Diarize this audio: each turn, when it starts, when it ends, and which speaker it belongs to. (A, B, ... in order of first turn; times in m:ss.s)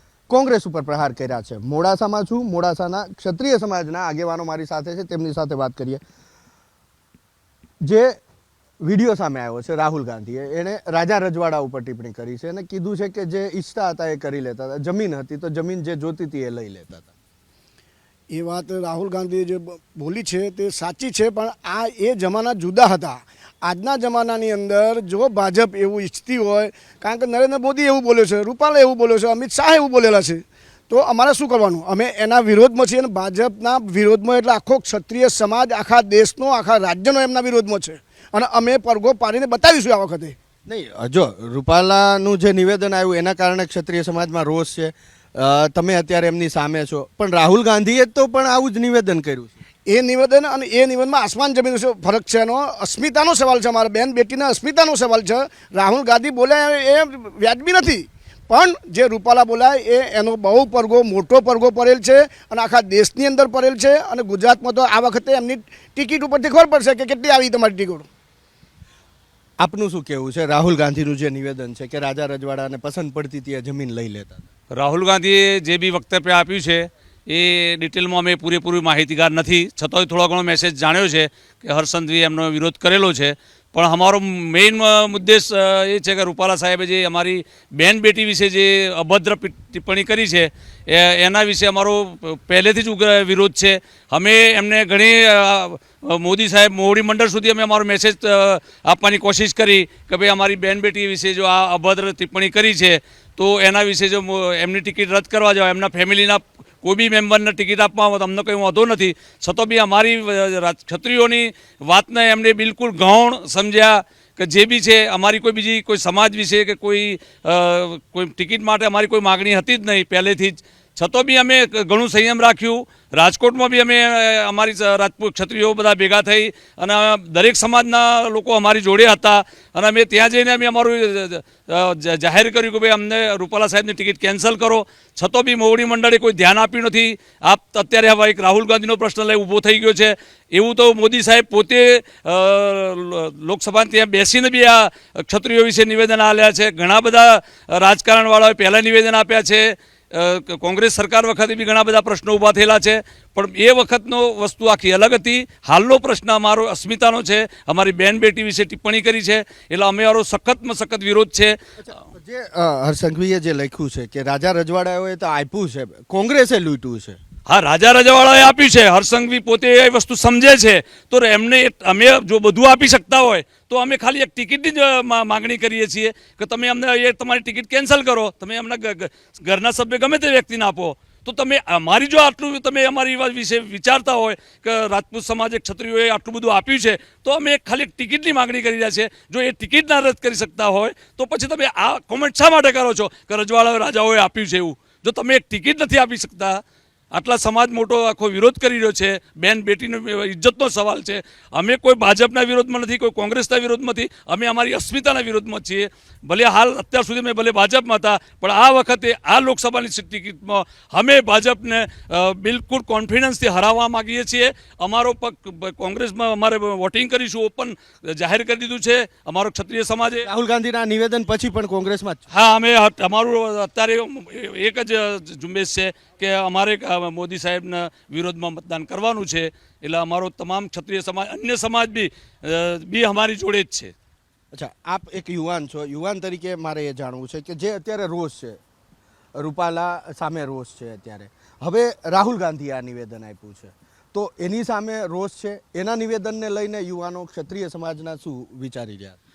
0:00.3-0:06.0 A
0:07.8-0:08.2 A
0:08.8-0:17.1 A
0:18.3-0:40.4 B
0:40.6-0:49.6 A
0:49.8-1:08.1 B
1:09.6-1:14.4 A
1:14.7-2:41.6 C
2:41.8-2:47.2 A
2:47.5-3:16.6 C
3:17.1-3:40.2 C
3:40.2-3:42.2 A
3:42.3-3:53.9 C
3:54.5-3:58.6 A
3:59.4-4:09.2 A